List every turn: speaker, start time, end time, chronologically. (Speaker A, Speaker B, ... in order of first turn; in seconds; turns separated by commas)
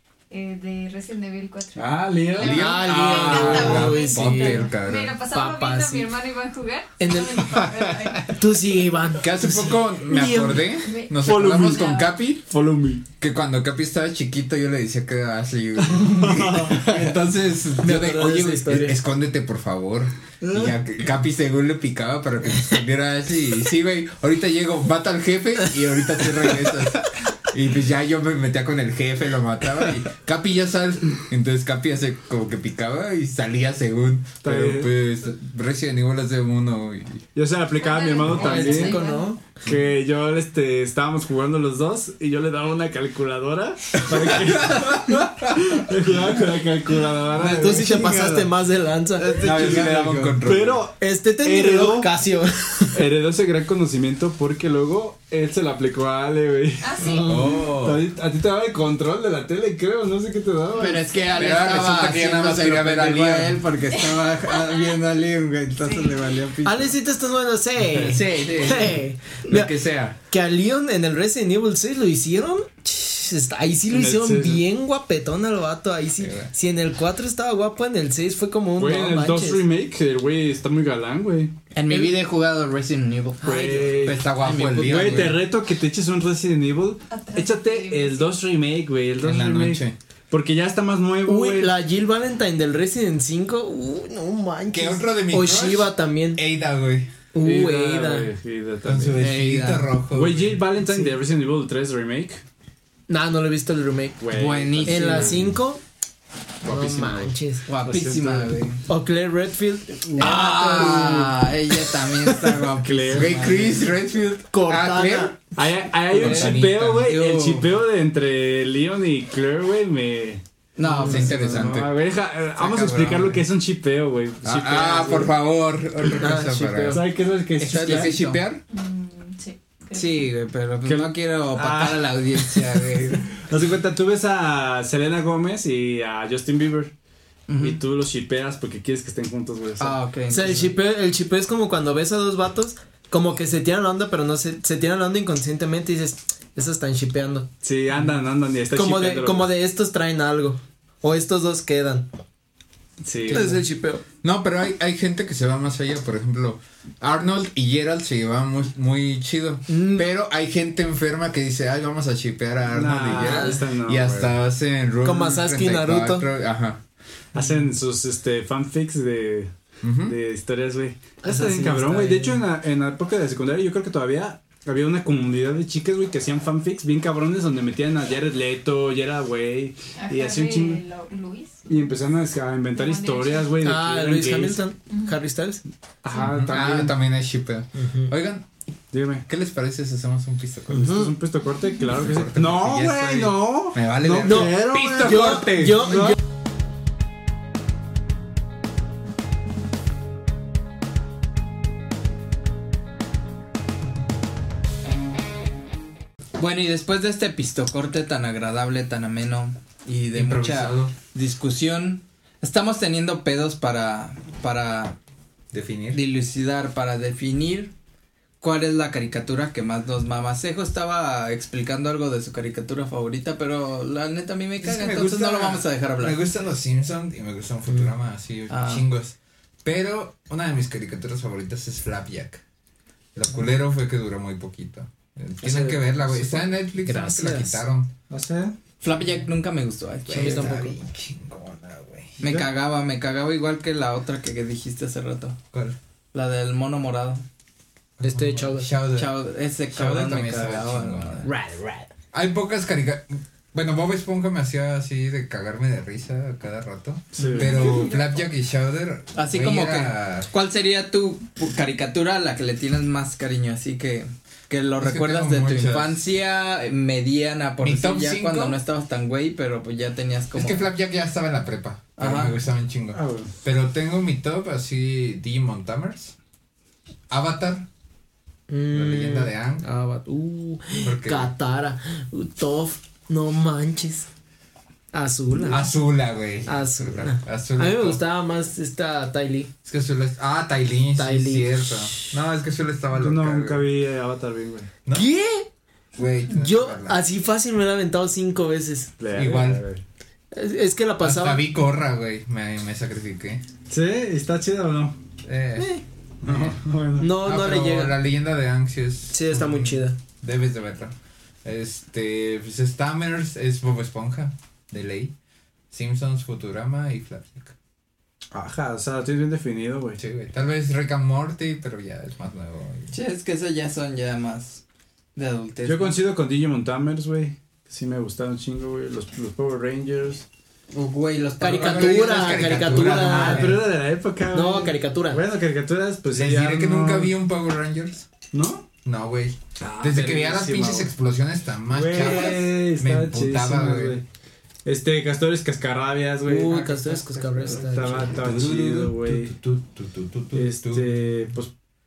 Speaker A: 0.3-8.3, Speaker B: 1.7-2.6, Speaker C: 2.4-5.2, Speaker D: 2.4-4.7, Speaker D: 5.3-6.1, Speaker D: 7.0-7.7, Speaker D: 8.2-10.7, Speaker C: 9.2-12.4, Speaker A: 10.8-12.1, Speaker B: 11.2-13.0, Speaker C: 13.2-37.2, Speaker B: 16.2-16.8, Speaker D: 17.8-19.0, Speaker B: 20.4-20.7, Speaker B: 34.4-34.9, Speaker B: 37.3-39.0, Speaker A: 37.8-39.3, Speaker D: 38.3-39.4, Speaker B: 39.6-48.3, Speaker C: 44.1-46.4, Speaker C: 47.3-48.0, Speaker D: 47.5-49.4, Speaker E: 49.2-50.3, Speaker C: 49.4-50.9, Speaker B: 49.4-52.1, Speaker D: 51.0-53.0, Speaker B: 52.9-56.9, Speaker A: 56.8-57.6, Speaker D: 57.0-57.6, Speaker C: 57.2-58.0, Speaker B: 57.8-61.0, Speaker E: 60.8-66.9, Speaker C: 61.3-63.6, Speaker A: 63.9-65.0, Speaker A: 65.8-66.2, Speaker D: 66.6-79.6, Speaker C: 68.0-70.2, Speaker E: 68.1-68.6, Speaker B: 73.9-74.6, Speaker C: 76.2-76.5, Speaker B: 78.8-81.5, Speaker E: 81.7-83.7, Speaker D: 83.4-83.8, Speaker B: 83.4-91.7, Speaker C: 84.0-85.4, Speaker E: 84.3-85.4, Speaker A: 87.1-88.3, Speaker C: 89.2-89.9, Speaker D: 91.2-96.4, Speaker C: 94.7-97.1, Speaker D: 97.3-98.3, Speaker B: 97.4-99.2, Speaker C: 98.8-100.6, Speaker E: 99.2-99.8, Speaker B: 100.1-102.4, Speaker D: 103.1-104.2, Speaker B: 104.2-105.5, Speaker E: 104.3-105.4, Speaker D: 104.8-105.8, Speaker B: 106.6-108.6, Speaker D: 106.6-107.6, Speaker E: 107.7-108.8, Speaker D: 108.9-111.3, Speaker E: 110.2-113.9, Speaker B: 112.5-113.6, Speaker C: 113.1-115.5, Speaker D: 114.5-115.3, Speaker B: 115.5-125.3, Speaker C: 116.1-117.1, Speaker E: 116.2-117.7, Speaker E: 120.8-121.7, Speaker C: 120.9-121.9, Speaker C: 122.6-123.4, Speaker C: 124.4-127.0, Speaker D: 126.2-127.0, Speaker B: 126.9-128.1, Speaker E: 127.6-128.4, Speaker C: 127.7-128.6, Speaker A: 128.7-130.3, Speaker E: 129.9-133.3, Speaker B: 130.8-132.8, Speaker B: 133.4-136.9, Speaker E: 137.5-137.8, Speaker B: 137.6-140.6, Speaker E: 139.8-140.6, Speaker D: 140.3-147.5, Speaker B: 147.6-149.5, Speaker D: 148.7-152.1, Speaker B: 153.0-153.6, Speaker D: 153.3-154.0, Speaker C: 154.2-166.8, Speaker D: 159.7-160.1, Speaker B: 162.7-164.4, Speaker D: 163.2-163.6, Speaker D: 165.0-166.3, Speaker B: 167.3-169.5, Speaker C: 169.8-170.2, Speaker B: 170.0-180.8, Speaker D: 171.2-172.4, Speaker A: 180.0-181.6, Speaker B: 181.7-184.6, Speaker A: 182.7-183.5, Speaker D: 183.6-185.6, Speaker A: 184.9-185.2, Speaker B: 186.0-186.9, Speaker C: 186.2-188.4, Speaker D: 187.8-188.1, Speaker B: 188.9-189.2, Speaker C: 189.2-191.0, Speaker B: 190.7-196.2, Speaker D: 190.8-191.1, Speaker C: 191.9-195.9, Speaker D: 194.2-196.2, Speaker E: 206.4-214.9, Speaker C: 210.1-210.9, Speaker C: 215.5-216.0, Speaker E: 215.9-217.7, Speaker E: 218.4-226.2, Speaker C: 224.6-232.4, Speaker E: 228.5-228.8, Speaker C: 233.1-237.9, Speaker B: 235.4-236.4, Speaker D: 236.8-237.6, Speaker B: 238.1-238.5, Speaker E: 238.8-240.6, Speaker C: 240.1-242.2, Speaker D: 240.1-240.8, Speaker E: 242.2-245.4, Speaker C: 245.5-245.8, Speaker E: 246.1-247.2, Speaker C: 248.0-249.2, Speaker D: 248.0-248.7, Speaker E: 248.9-251.3, Speaker C: 249.7-251.3, Speaker D: 251.2-251.9, Speaker C: 252.1-260.3, Speaker B: 257.1-257.6, Speaker A: 257.4-258.2, Speaker E: 259.1-270.6, Speaker C: 264.8-266.0, Speaker C: 267.6-268.6, Speaker C: 270.3-276.1, Speaker E: 272.0-272.3, Speaker B: 272.9-273.3, Speaker C: 277.1-277.7, Speaker D: 278.5-284.1, Speaker C: 278.7-279.6, Speaker C: 280.8-281.3, Speaker D: 284.9-285.7, Speaker C: 285.4-288.0, Speaker D: 286.4-289.5, Speaker C: 289.6-293.7, Speaker D: 290.9-292.1, Speaker B: 292.9-294.7, Speaker D: 294.9-295.5, Speaker C: 295.9-297.0, Speaker D: 296.3-298.9, Speaker B: 299.0-299.8, Speaker C: 299.1-299.6, Speaker D: 300.3-301.4, Speaker C: 301.0-303.4, Speaker B: 303.7-304.9, Speaker C: 305.2-305.7, Speaker D: 305.6-305.8, Speaker C: 306.2-306.6, Speaker B: 306.2-307.1, Speaker D: 307.0-307.9, Speaker C: 307.1-310.9, Speaker D: 309.1-310.0, Speaker C: 311.4-315.1, Speaker C: 315.7-317.5, Speaker B: 318.3-320.0, Speaker C: 320.0-322.9, Speaker E: 322.9-324.6, Speaker E: 325.1-326.0, Speaker B: 325.6-330.2, Speaker E: 330.7-333.2, Speaker D: 331.4-333.6, Speaker C: 331.5-333.6, Speaker B: 332.9-337.1, Speaker D: 334.3-335.2, Speaker C: 336.1-338.1, Speaker B: 338.3-338.6, Speaker C: 338.8-344.0, Speaker B: 339.6-340.9, Speaker B: 341.7-344.0, Speaker B: 344.6-346.6, Speaker D: 346.2-348.2, Speaker E: 346.6-347.0, Speaker B: 347.6-349.4, Speaker C: 347.8-351.0, Speaker B: 350.3-351.5